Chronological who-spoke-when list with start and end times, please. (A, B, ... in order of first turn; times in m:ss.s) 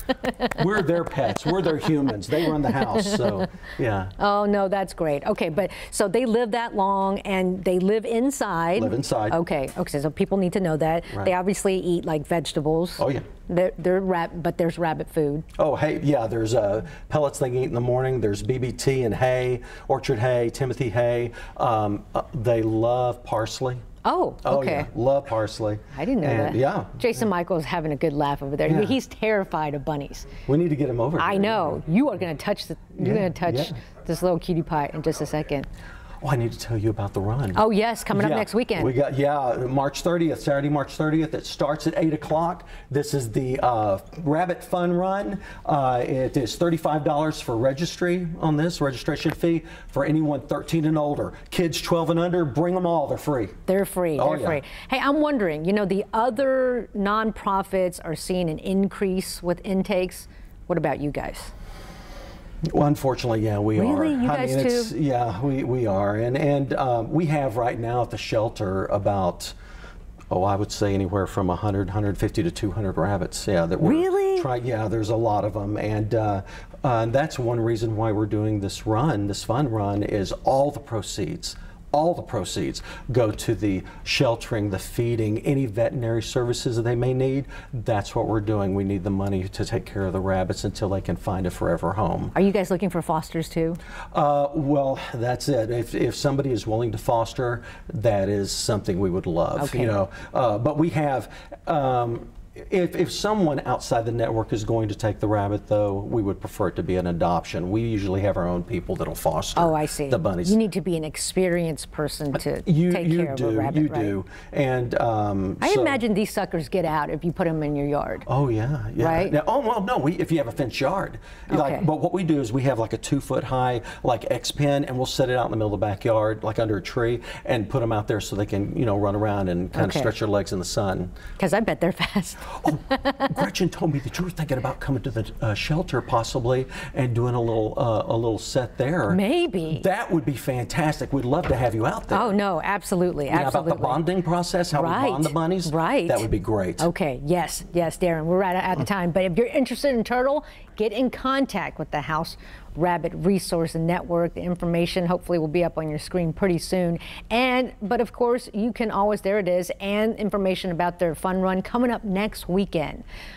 0:00.3-0:00.6 A
0:00.4-0:04.1 B
0:01.5-0:01.8 A
0:02.4-0:03.4 A
0:04.2-0:15.4 A
0:08.8-0:09.4 B
0:13.0-0:13.2 B
0:15.6-0:23.8 B
0:24.0-0:24.9 A
0:24.4-0:27.1 B
0:25.9-0:30.3 A
0:28.6-0:29.0 B
0:30.4-0:31.8 B
0:31.2-0:35.7 A
0:33.0-0:33.7 B
0:36.2-0:53.6 B
0:37.5-0:38.9 A
0:53.7-1:01.5 A
0:54.2-0:54.6 B
1:02.6-1:09.5 B
1:03.7-1:04.9 A
1:10.3-1:32.3 B
1:13.8-1:14.5 A
1:32.3-1:33.8 A
1:34.1-1:50.6 B
1:39.6-1:39.9 A
1:49.6-1:54.2 A
1:52.3-1:56.0 B
1:55.6-1:58.2 A
1:58.3-2:11.1 B
1:59.0-1:59.3 A
2:01.5-2:01.8 A
2:09.7-2:10.1 A
2:11.4-2:13.3 A
2:12.6-2:22.4 B
2:19.1-2:19.8 A
2:22.1-2:24.0 A
2:23.3-2:26.9 B
2:24.7-2:26.3 A
2:26.8-2:43.0 A